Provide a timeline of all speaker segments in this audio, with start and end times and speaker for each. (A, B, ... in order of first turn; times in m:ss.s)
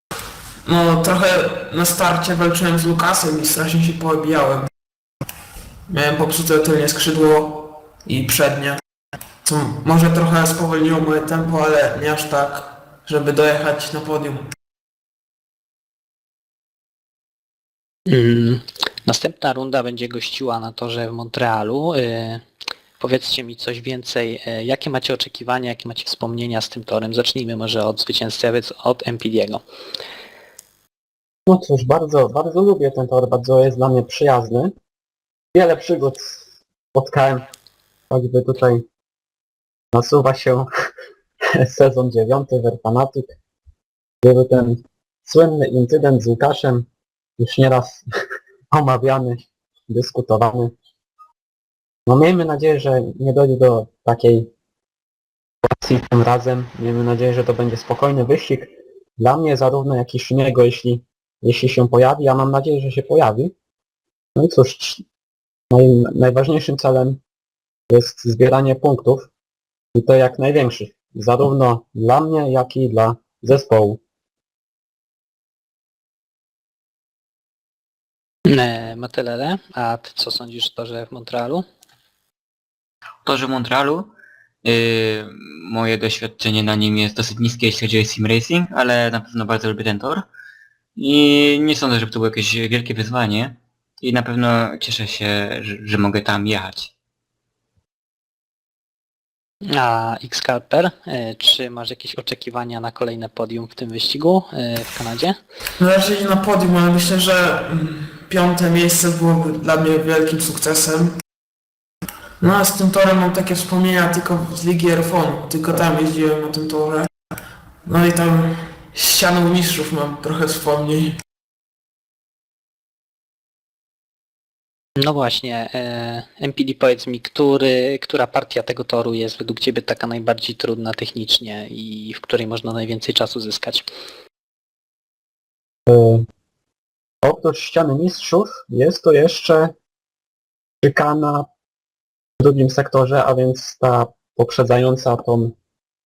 0:00.6-0:04.7 A
0:05.9-0:08.8 A
0:09.4-0:14.5 A
0:18.1-0:22.4 B
0:23.0-0:29.6 B
0:31.5-0:34.7 C
0:35.5-0:36.4 C
0:36.9-0:37.4 C
0:38.1-0:38.8 C
0:39.9-0:40.7 C
0:41.5-0:43.3 C
0:44.2-0:48.0 C
0:48.7-0:50.7 C
0:52.1-0:54.5 C
0:55.7-1:03.5 C
1:04.4-1:05.0 C
1:05.7-1:07.2 C
1:07.9-1:09.3 C
1:09.9-1:14.0 C
1:18.5-1:21.6 B
1:23.2-1:24.1 D
1:24.6-1:30.3 D
1:31.0-1:36.9 D
1:39.7-1:45.4 B
1:45.8-1:51.2 A
1:52.4-1:57.1 A
1:57.8-2:01.2 A
2:05.0-2:13.9 B
2:15.9-2:16.2 C
2:17.2-2:19.7 C
2:20.8-2:21.5 C
2:22.4-2:25.5 C